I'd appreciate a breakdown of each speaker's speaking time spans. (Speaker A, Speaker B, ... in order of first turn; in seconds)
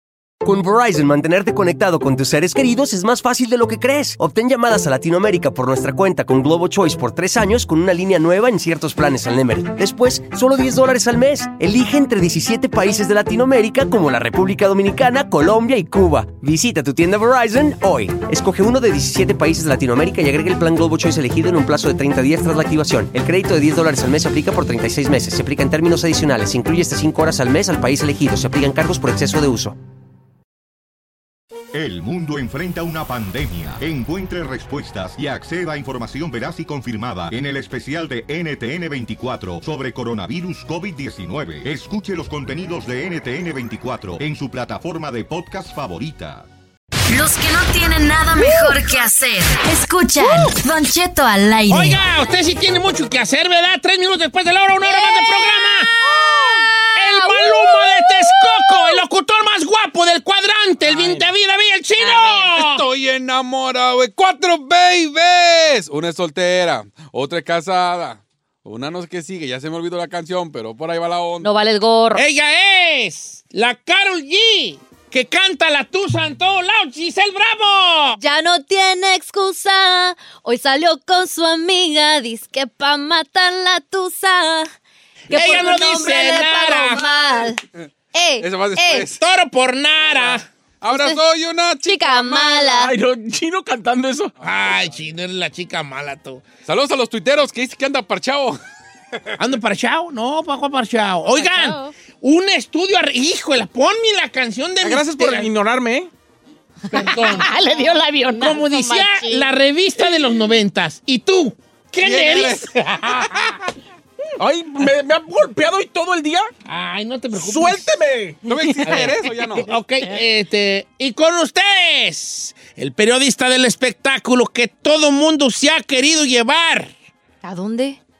Speaker A: 0.4-29.8
Speaker B: 31.7-46.5
Speaker C: 47.1-52.0
Speaker D: 51.7-55.9, 57.0-62.8, 72.1-78.2, 85.3-87.1, 89.2-90.5, 94.4-96.4, 99.4-105.5, 106.9-107.6, 108.4-113.5, 116.7-117.9, 118.8-126.9
Speaker E: 54.8-55.5, 56.5-59.0, 62.0-62.4, 71.4-72.2, 78.2-84.7, 85.3-87.6, 88.1-89.1, 90.9-91.2, 91.8-92.9, 101.3-101.9, 106.9-109.5, 127.4-128.0
Speaker F: 56.2-56.6, 62.5-71.5, 88.4-89.2, 90.0-92.6, 94.6-94.9, 96.7-98.6, 112.0-113.6, 118.4-119.7
Speaker G: 60.9-61.2, 85.4-86.1, 92.7-94.3, 104.8-106.1, 114.4-116.5, 117.3-118.4